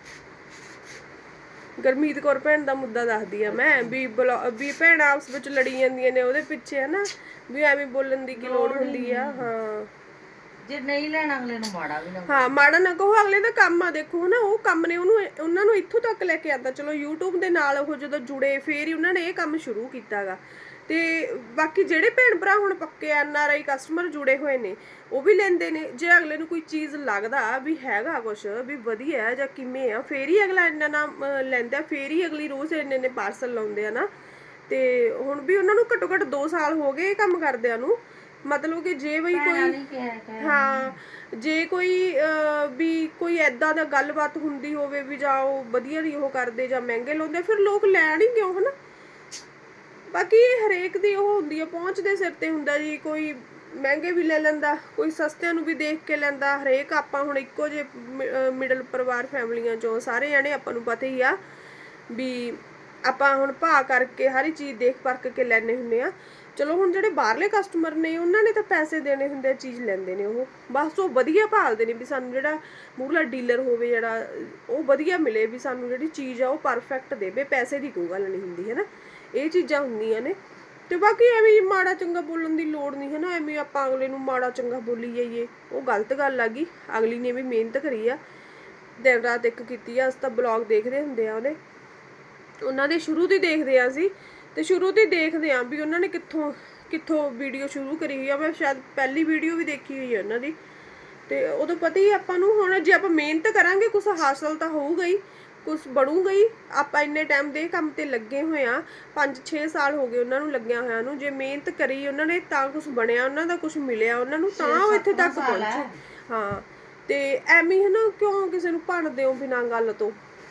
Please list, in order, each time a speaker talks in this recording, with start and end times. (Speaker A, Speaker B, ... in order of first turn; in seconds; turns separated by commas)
Speaker A: 1.8-9.9, Speaker B: 3.5-4.0, Speaker B: 8.3-9.5, Speaker B: 10.6-12.6, Speaker A: 12.3-34.1, Speaker A: 34.7-39.8, Speaker B: 39.3-41.0, Speaker A: 40.4-48.7, Speaker A: 50.1-61.4, Speaker A: 62.1-80.4, Speaker A: 80.9-88.2, Speaker A: 89.0-91.6, Speaker A: 92.7-100.6, Speaker A: 101.3-120.2, Speaker B: 114.5-116.0